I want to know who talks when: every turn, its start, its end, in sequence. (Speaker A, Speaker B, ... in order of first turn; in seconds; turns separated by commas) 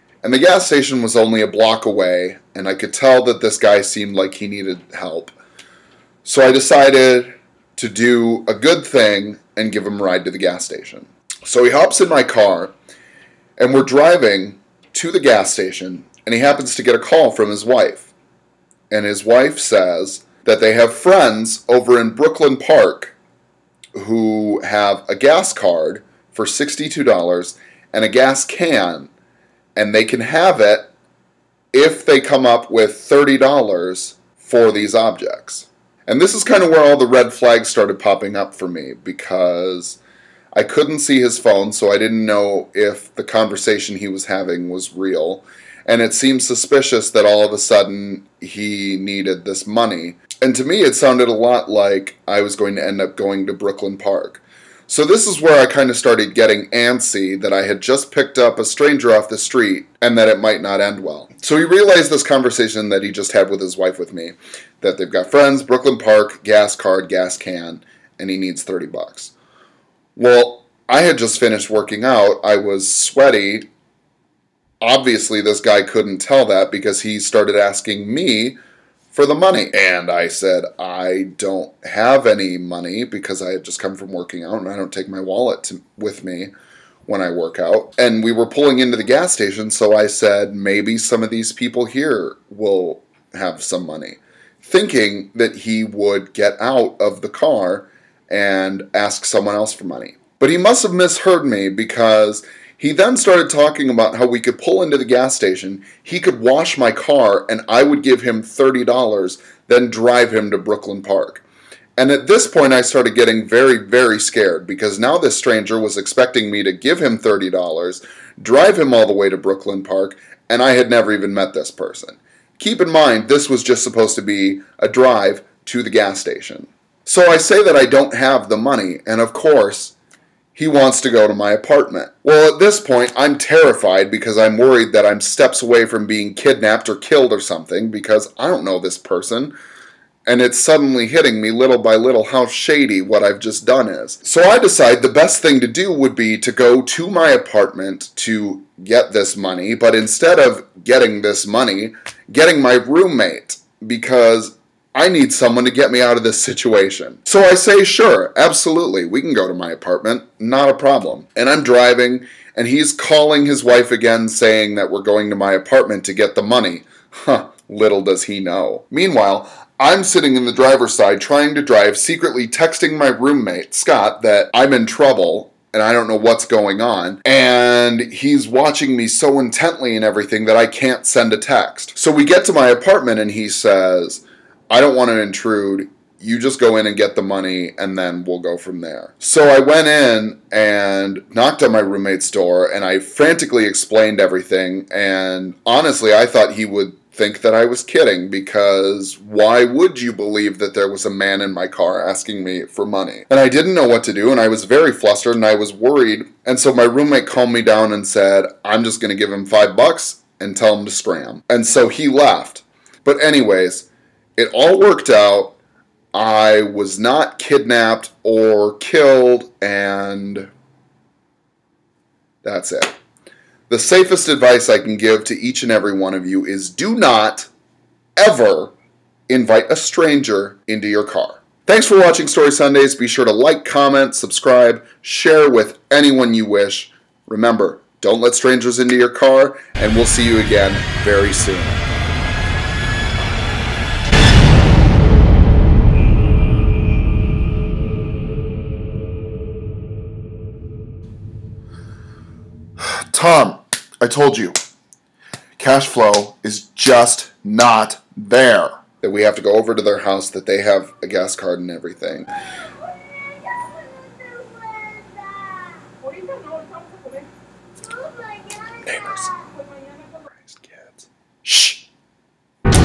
Speaker A: 0.2-5.3, Speaker A: 6.2-12.7, Speaker A: 13.6-18.1, Speaker A: 18.9-23.1, Speaker A: 24.0-29.1, Speaker A: 29.8-30.9, Speaker A: 31.7-40.0, Speaker A: 40.5-69.3, Speaker A: 70.2-73.7, Speaker A: 74.8-78.6, Speaker A: 79.1-86.5, Speaker A: 87.1-111.5, Speaker A: 112.0-129.9, Speaker A: 130.5-139.5, Speaker A: 140.3-215.6, Speaker A: 216.1-220.5, Speaker A: 222.4-223.0, Speaker A: 223.7-227.5, Speaker A: 228.2-228.7, Speaker A: 229.3-241.8, Speaker A: 252.8-254.6, Speaker A: 255.6-262.3, Speaker A: 268.8-269.4, Speaker A: 270.4-271.9